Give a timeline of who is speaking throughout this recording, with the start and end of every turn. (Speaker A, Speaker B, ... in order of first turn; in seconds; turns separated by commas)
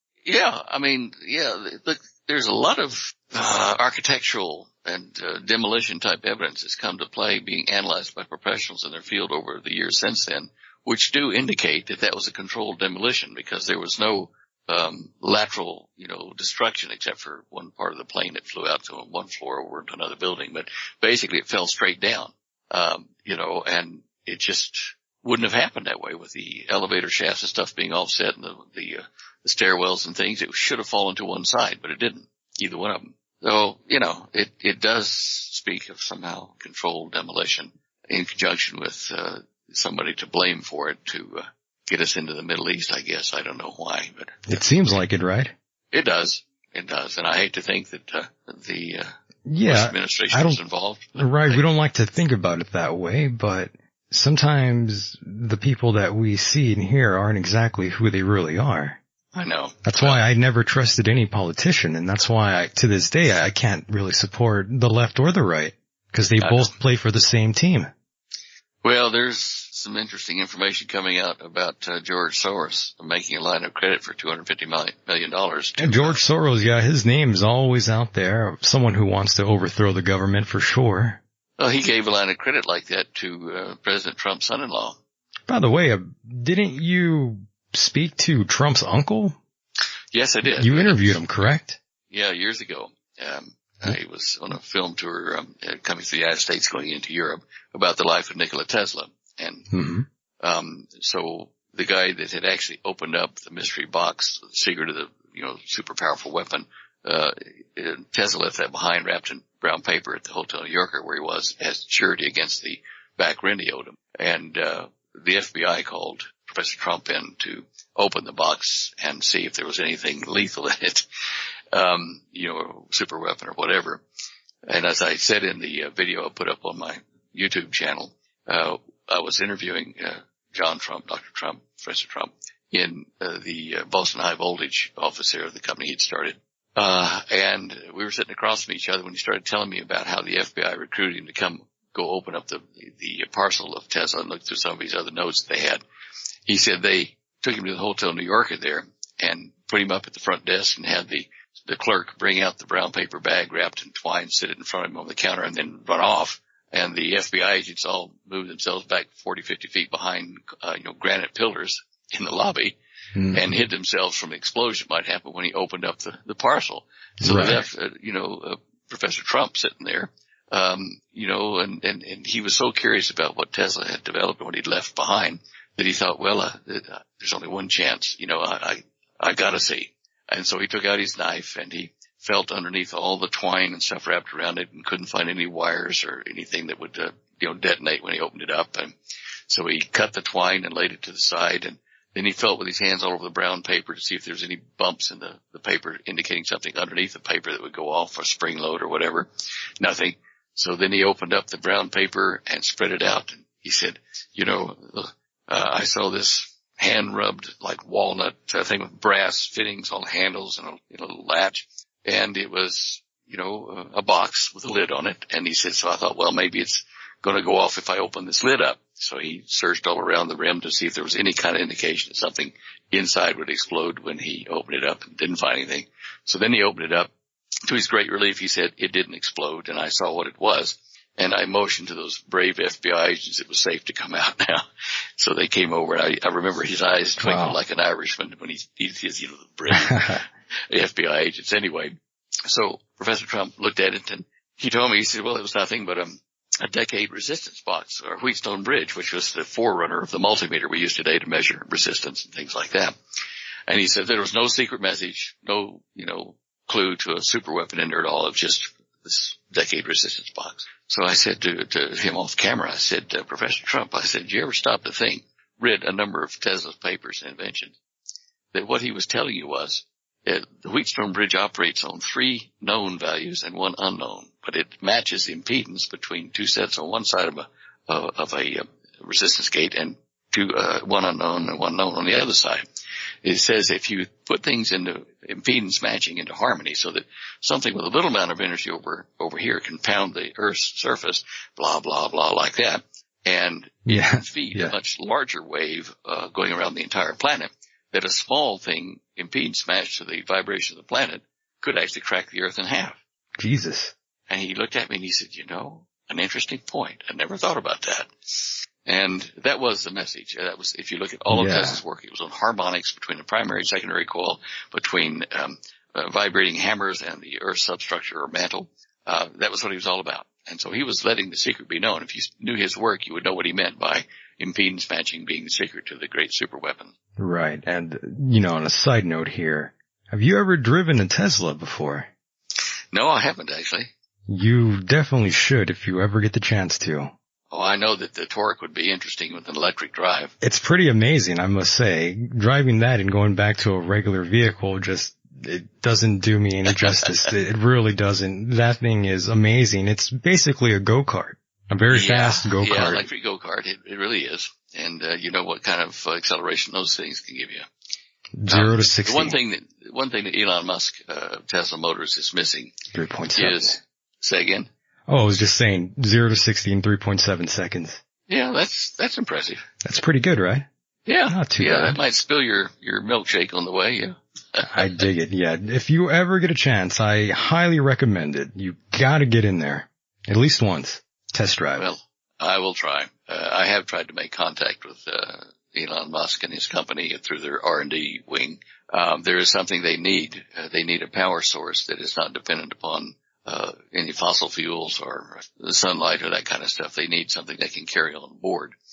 Speaker A: 0.2-45.0, Speaker B: 44.5-45.5, Speaker A: 45.9-49.1, Speaker B: 49.5-50.6, Speaker A: 49.6-51.6, Speaker B: 51.1-59.0, Speaker A: 59.3-60.2, Speaker B: 59.8-67.9, Speaker A: 66.4-66.7, Speaker A: 68.8-76.2, Speaker B: 75.8-81.2, Speaker A: 81.6-85.0, Speaker B: 85.5-89.3, Speaker A: 90.1-91.2, Speaker B: 90.4-91.8, Speaker A: 92.1-99.7, Speaker B: 99.7-100.0, Speaker A: 100.4-121.0, Speaker A: 121.7-124.0, Speaker A: 124.7-145.8, Speaker A: 146.4-162.8, Speaker B: 163.1-163.5, Speaker A: 163.3-188.9, Speaker B: 167.2-167.6, Speaker A: 189.5-199.3, Speaker A: 199.8-227.1, Speaker A: 227.7-234.6, Speaker A: 235.2-241.9, Speaker B: 237.2-237.6, Speaker B: 239.7-240.2, Speaker A: 242.5-252.9, Speaker A: 253.7-267.8, Speaker A: 268.5-282.6, Speaker A: 283.2-303.0, Speaker B: 293.9-294.7, Speaker B: 303.4-303.9, Speaker A: 304.3-326.9, Speaker B: 311.3-311.8, Speaker B: 327.2-332.1, Speaker A: 332.9-333.9, Speaker B: 334.3-337.1, Speaker A: 337.5-340.3, Speaker B: 340.4-353.1, Speaker A: 351.9-357.6, Speaker B: 358.4-359.4, Speaker A: 358.5-362.7, Speaker B: 362.9-363.8, Speaker A: 363.4-364.7, Speaker B: 365.1-368.0, Speaker A: 368.3-369.6, Speaker B: 369.8-370.7, Speaker A: 371.1-375.1, Speaker B: 371.3-372.0, Speaker B: 374.6-381.9, Speaker A: 381.8-398.7